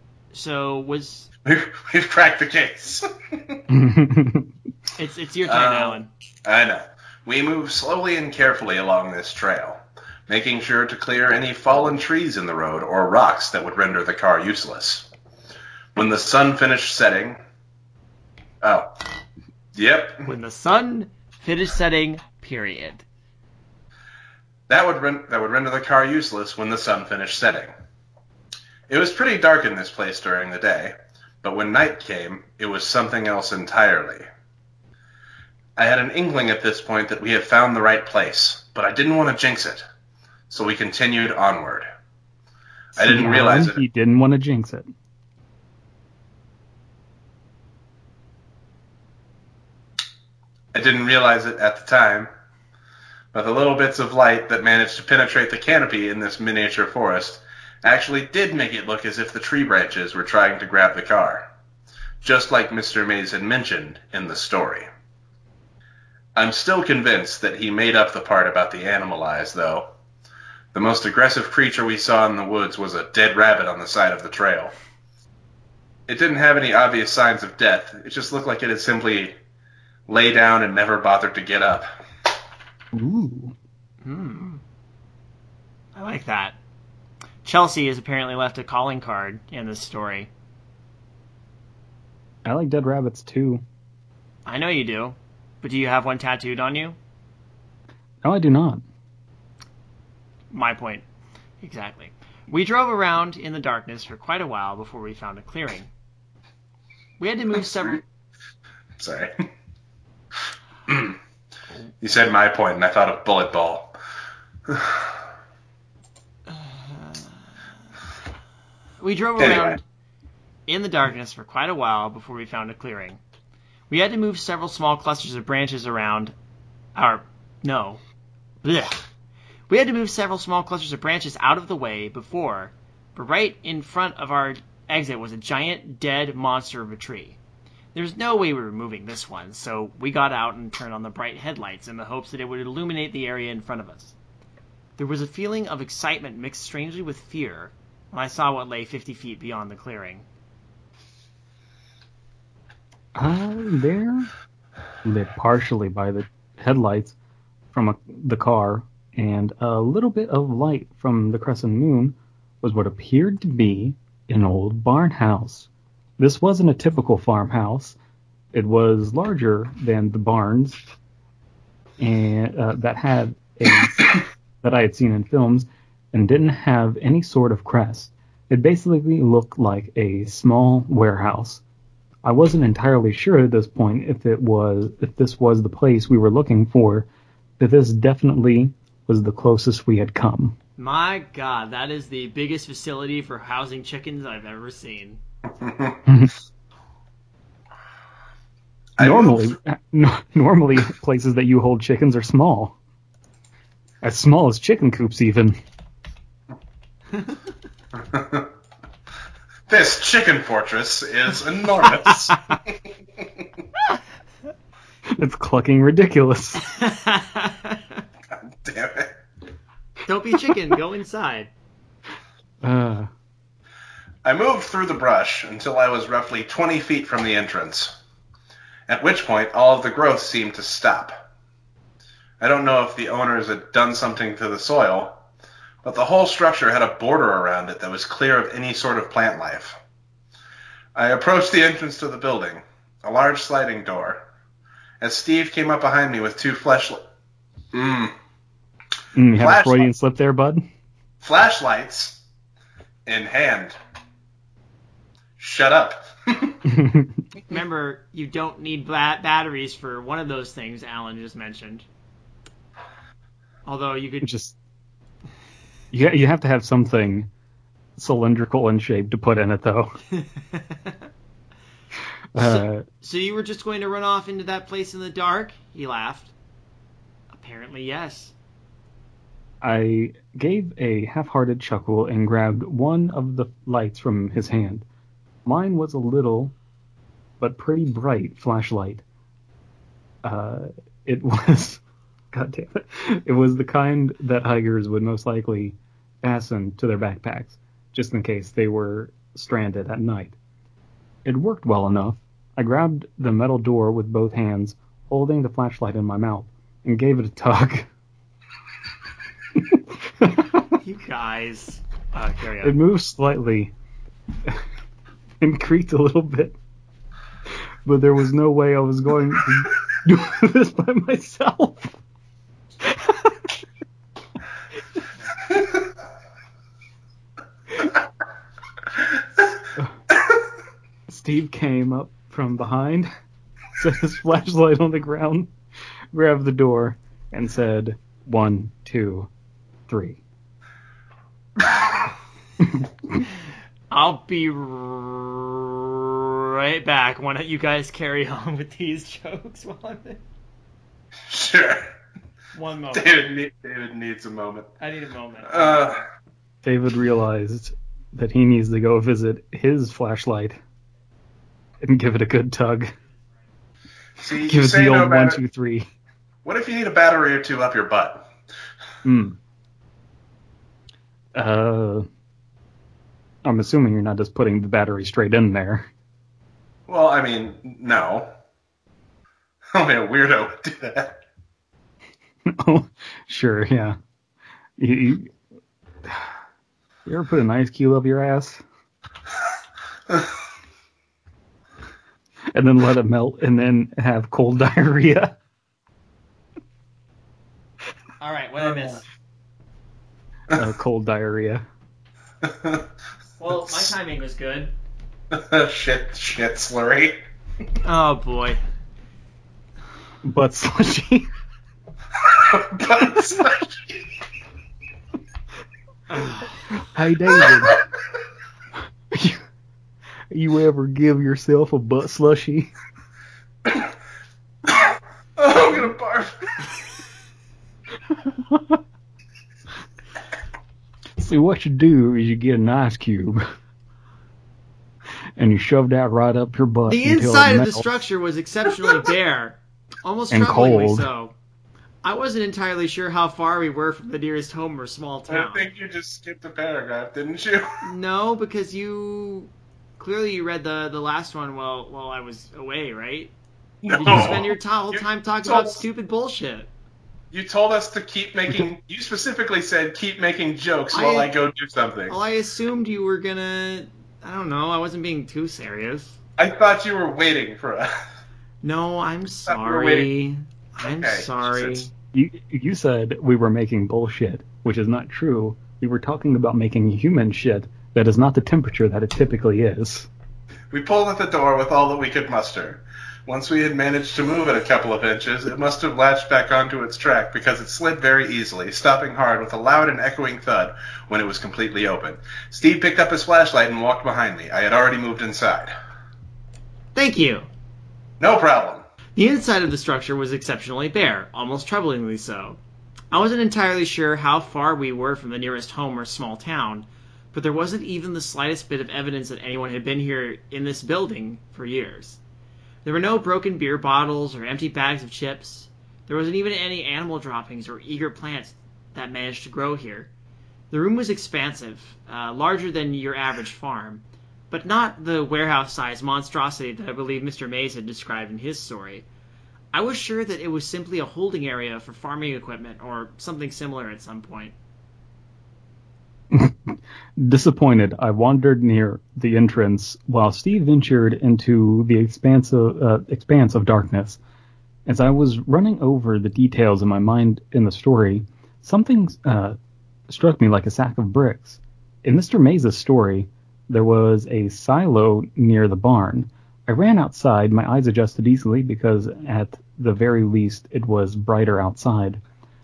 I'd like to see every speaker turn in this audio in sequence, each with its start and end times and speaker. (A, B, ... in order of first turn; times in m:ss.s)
0:00.3-0:01.3 A
0:01.4-0:03.6 B
0:03.7-0:04.5 C
0:05.0-0:06.1 A
0:05.4-0:15.1 B
0:15.9-0:17.4 B
0:18.6-0:18.9 B
0:19.7-0:20.3 B
0:20.2-0:23.0 A
0:24.7-0:27.7 B
0:28.9-0:34.2 B
0:35.8-0:39.8 B
0:40.5-0:41.8 B
0:43.0-0:43.8 B
0:43.0-0:44.9 C
0:50.7-0:52.3 B
0:53.3-1:01.4 B
1:02.2-1:04.9 B
1:06.4-1:09.9 B
1:10.7-1:14.7 B
1:16.1-1:19.4 B
1:20.1-1:21.9 B
1:22.9-1:23.6 C
1:24.0-1:24.6 A
1:25.9-1:26.6 A
1:27.4-1:30.3 A
1:32.4-1:33.6 C
1:34.4-1:37.0 A
1:38.2-1:38.8 C
1:40.5-1:41.0 A
1:41.6-1:45.9 A
1:47.2-1:48.0 A
1:49.0-1:49.3 B
1:50.9-1:51.2 B
1:52.0-1:53.9 B
1:54.7-1:55.0 B
1:56.5-1:57.4 A
1:59.0-1:59.8 A
1:59.4-1:59.8 B
2:00.7-2:03.2 A
2:03.9-2:06.3 A
2:07.0-2:08.0 A
2:08.6-2:09.0 A
2:09.7-2:17.4 A
2:17.9-2:24.1 A
2:25.0-2:30.2 A
2:33.1-2:34.3 C
2:35.0-2:37.1 C
2:37.7-2:48.0 C
2:48.5-2:50.8 C
2:52.0-3:01.6 C
3:02.2-3:07.1 C
3:07.6-3:10.6 C
3:10.8-3:15.2 A
3:15.6-3:15.9 B
3:16.0-3:16.3 C
3:19.0-3:19.6 B
3:19.0-3:22.8 C
3:24.0-3:25.6 C
3:28.1-3:28.5 B
3:29.7-3:32.5 B
3:35.1-3:36.6 C
3:36.6-3:38.0 A
3:38.6-3:39.1 B
3:40.0-3:41.5 A
3:42.6-3:43.1 C
3:44.2-3:47.9 B
3:48.9-3:51.2 B
3:52.4-3:55.2 B
3:55.8-3:59.8 B
4:00.9-4:04.2 B
4:05.0-4:07.0 B
4:07.7-4:08.1 B
4:09.1-4:10.6 C
4:09.3-4:09.9 B
4:11.2-4:12.2 B
4:13.0-4:13.8 B
4:15.4-4:16.6 B
4:16.6-4:17.2 C
4:17.5-4:21.8 A
4:23.6-4:24.3 A
4:24.2-4:24.6 C
4:25.9-4:27.3 C
4:28.0-4:30.0 C
4:30.1-4:31.0 A
4:32.3-4:32.8 C
4:32.4-4:36.3 A
4:37.4-4:38.3 A
4:39.6-4:44.8 C
4:45.4-4:46.5 C
4:47.4-4:49.0 C
4:50.2-4:51.8 C
4:52.3-5:00.4 C
5:01.2-5:07.9 C
5:09.5-5:10.6 C
5:10.8-5:12.8 A
5:12.6-5:13.7 C
5:15.4-5:16.6 C
5:17.8-5:22.0 C
5:22.8-5:23.5 C
5:31.1-5:33.1 C
5:33.8-5:35.5 C
5:36.1-5:39.3 C
5:39.9-5:40.2 C
5:42.6-5:43.2 C
5:43.9-5:50.2 A
5:51.3-5:51.9 B
5:52.5-5:53.2 A
5:52.9-5:54.7 B
5:54.8-5:56.0 A
5:55.5-5:56.0 B
5:56.6-6:00.6 C
6:01.8-6:02.9 C
6:04.2-6:05.4 B
6:04.4-6:05.9 C
6:06.4-6:08.3 B
6:09.0-6:09.4 C
6:11.3-6:12.0 C
6:13.4-6:15.9 C
6:16.9-6:18.3 B
6:19.7-6:21.2 B
6:22.4-6:24.0 C
6:24.8-6:25.3 C
6:26.0-6:26.3 C
6:27.0-6:28.6 C
6:32.5-6:35.4 C
6:38.2-6:39.0 A
6:40.5-6:41.6 C
6:42.4-6:42.8 B
6:43.4-6:44.7 A
6:45.3-6:47.2 B
6:47.8-6:48.6 A
6:50.2-6:51.3 C
6:52.3-6:53.8 B
6:56.1-6:56.6 A
6:56.9-6:57.8 C
6:59.1-6:59.4 C
7:00.3-7:02.7 C
7:05.4-7:06.6 B
7:08.1-7:08.8 C
7:11.2-7:13.4 C
7:15.4-7:17.9 C
7:16.9-7:21.3 A
7:20.3-7:21.1 C
7:22.0-7:25.7 A
7:25.3-7:27.8 B
7:27.8-7:33.3 A
7:33.8-7:35.8 B
7:33.9-7:36.7 A
7:37.3-7:42.2 B
7:40.9-7:41.3 A
7:42.1-7:46.2 A
7:46.4-7:47.9 B
7:48.6-7:51.9 A
7:49.5-7:50.1 B
7:50.8-7:51.9 B
7:52.1-8:00.1 C
8:00.7-8:15.7 B
8:16.9-8:17.5 A
8:18.2-8:18.8 B
8:19.2-8:22.6 A
8:23.1-8:32.2 A
8:32.8-8:40.1 A
8:40.7-8:49.0 A
8:49.7-8:54.5 A
8:56.3-9:04.2 C
9:04.8-9:09.6 C
9:10.1-9:22.2 C